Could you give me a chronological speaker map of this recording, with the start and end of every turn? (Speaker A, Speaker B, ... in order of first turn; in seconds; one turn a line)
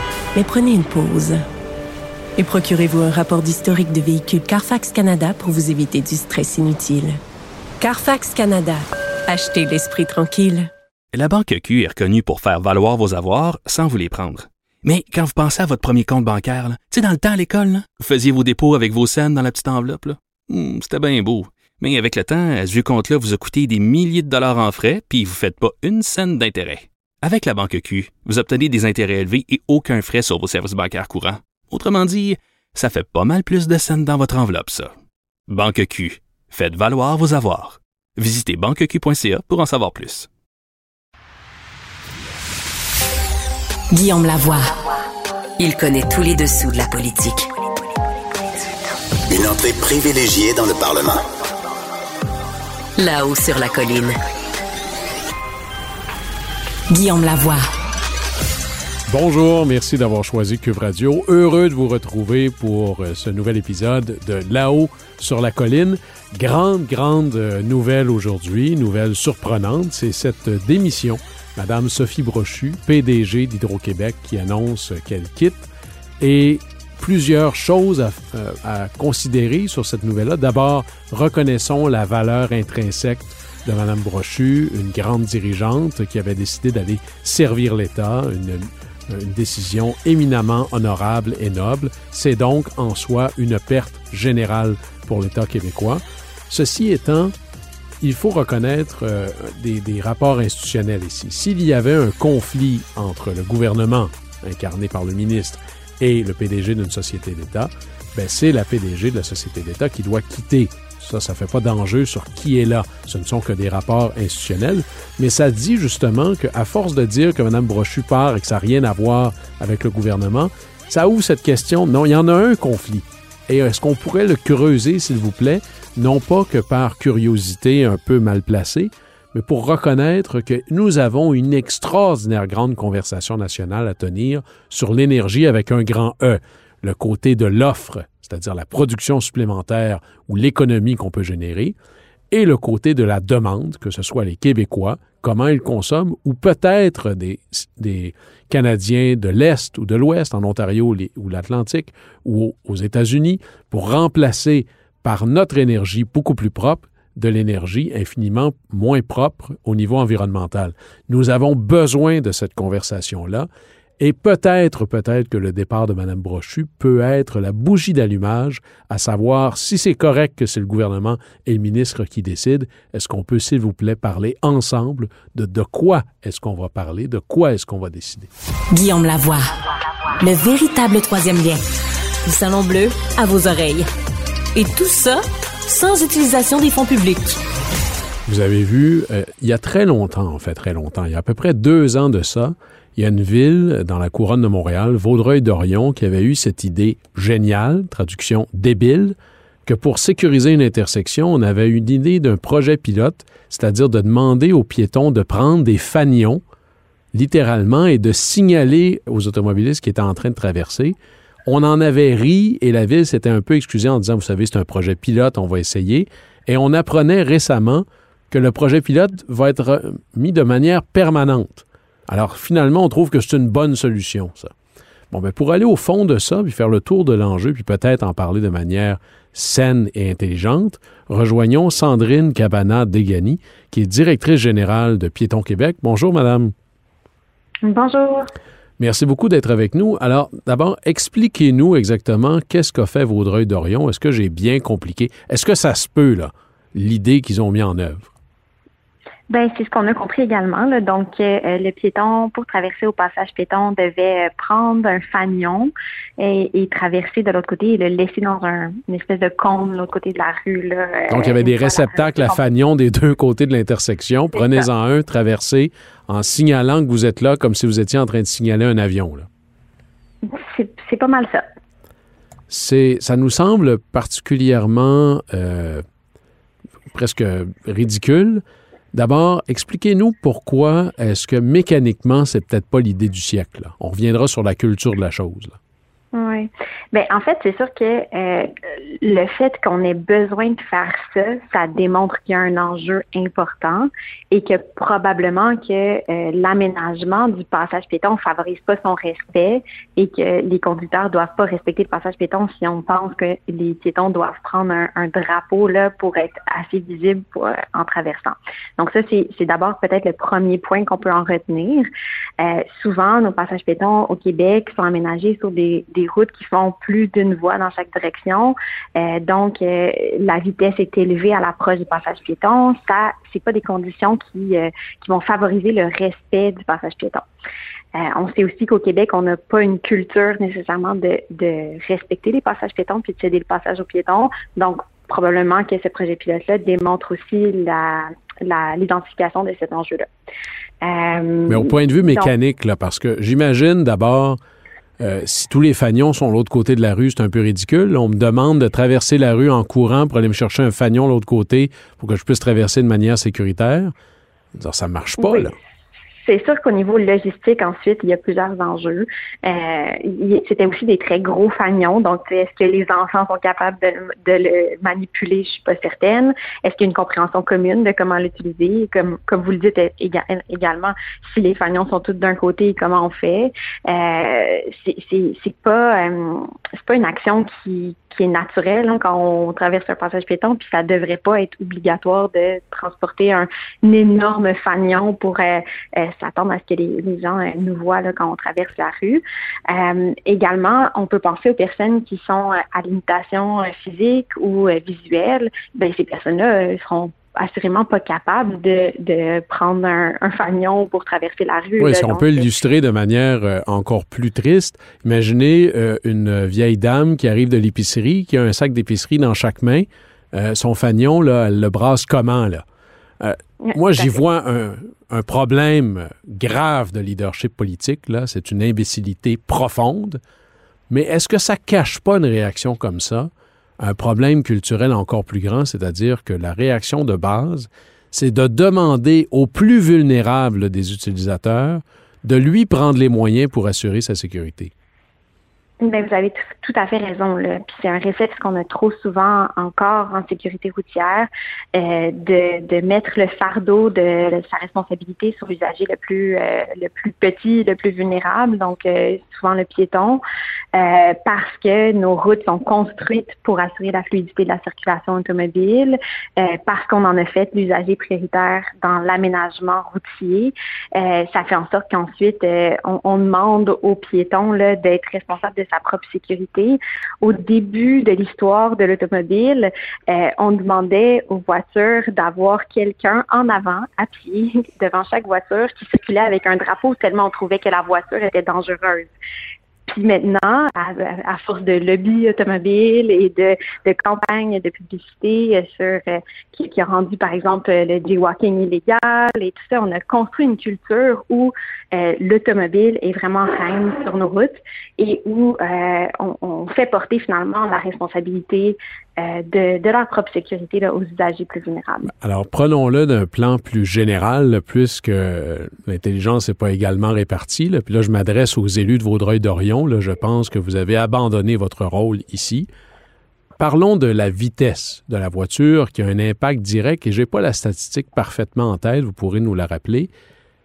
Speaker A: 0.3-1.4
Speaker A: 2.4-7.2
Speaker A: 7.8-10.7
Speaker B: 11.1-34.9
Speaker B: 35.5-40.3
Speaker C: 43.9-44.7
Speaker C: 45.6-47.5
Speaker D: 49.3-51.2
Speaker C: 53.0-54.1
Speaker C: 56.9-57.6
Speaker E: 59.1-75.7
Speaker E: 76.2-97.3
Speaker E: 98.0-141.7
Speaker E: 142.3-163.5
Speaker E: 164.0-178.3
Speaker C: 178.7-179.4
Speaker C: 180.2-181.6
Speaker C: 182.2-183.9
Speaker C: 184.5-187.4
Speaker E: 188.3-206.4
Speaker E: 207.1-224.5
Speaker E: 225.1-236.5
Speaker F: 237.6-238.3
Speaker E: 238.8-248.1
Speaker F: 249.3-262.4
Speaker E: 261.1-269.3
Speaker F: 264.4-264.6
Speaker F: 270.2-271.4
Speaker E: 272.5-275.8
Speaker E: 276.9-278.4
Speaker E: 278.9-285.5
Speaker F: 286.1-311.9
Speaker F: 312.4-327.2
Speaker F: 328.0-340.1
Speaker F: 340.8-342.3
Speaker E: 341.5-344.4
Speaker E: 345.0-353.9
Speaker E: 354.5-355.5
Speaker F: 355.2-355.5
Speaker F: 356.2-402.5
Speaker E: 401.8-412.6
Speaker E: 413.2-420.2
Speaker F: 413.6-414.2
Speaker E: 420.9-434.7
Speaker F: 435.8-450.2
Speaker F: 450.7-479.1
Speaker F: 479.9-502.1
Speaker E: 502.2-512.7
Speaker E: 513.6-520.1